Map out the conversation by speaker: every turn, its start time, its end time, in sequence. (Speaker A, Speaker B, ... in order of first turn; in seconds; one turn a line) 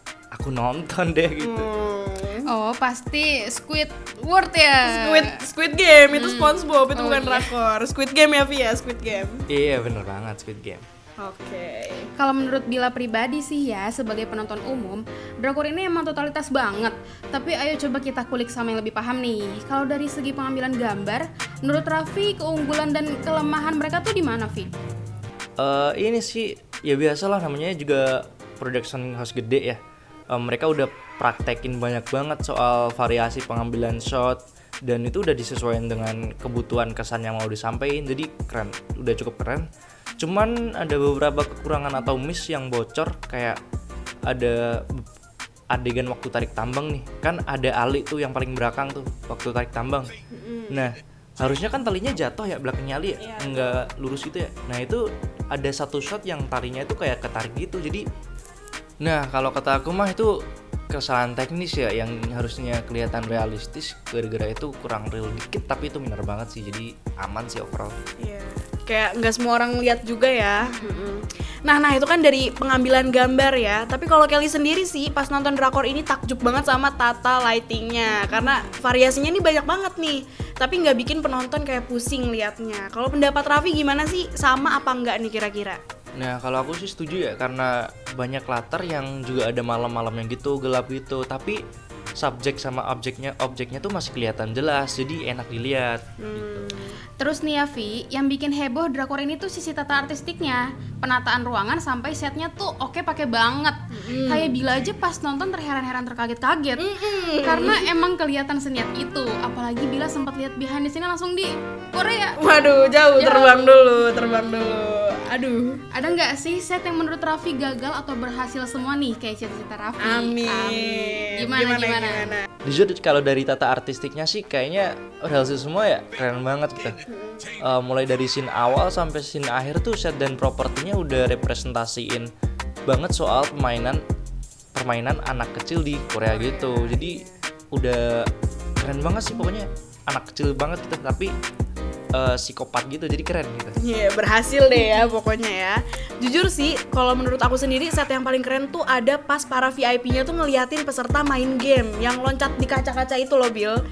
Speaker A: 0.3-1.7
Speaker B: 1.4-2.5
Speaker C: 2.5-5.3
Speaker B: 4.8-9.4
Speaker C: 6.1-7.5
Speaker A: 9.5-10.8
Speaker B: 11.2-12.1
Speaker C: 12.2-24.7
Speaker A: 25.6-29.8
Speaker A: 30.3-39.7
Speaker A: 40.2-43.6
Speaker A: 44.3-45.0
Speaker A: 45.7-50.1
Speaker B: 50.3-50.9
Speaker A: 50.7-58.1
Speaker B: 53.2-53.8
Speaker A: 59.0-60.3
Speaker A: 60.9-67.9
Speaker B: 68.2-85.8
Speaker C: 70.6-71.1
Speaker C: 78.3-78.7
Speaker A: 86.1-91.6
Speaker A: 92.2-96.7
Speaker B: 96.2-97.0
Speaker C: 97.2-106.9
Speaker B: 103.9-104.6
Speaker B: 106.8-107.8
Speaker C: 107.4-112.5
Speaker B: 112.4-115.8
Speaker C: 113.1-114.8
Speaker C: 115.9-122.3
Speaker B: 120.0-122.5
Speaker A: 122.6-127.0
Speaker B: 127.1-127.5
Speaker A: 127.6-132.3
Speaker A: 132.9-134.0
Speaker A: 134.8-141.3
Speaker C: 136.7-137.1
Speaker A: 142.1-143.8
Speaker B: 143.8-153.8
Speaker C: 144.7-145.2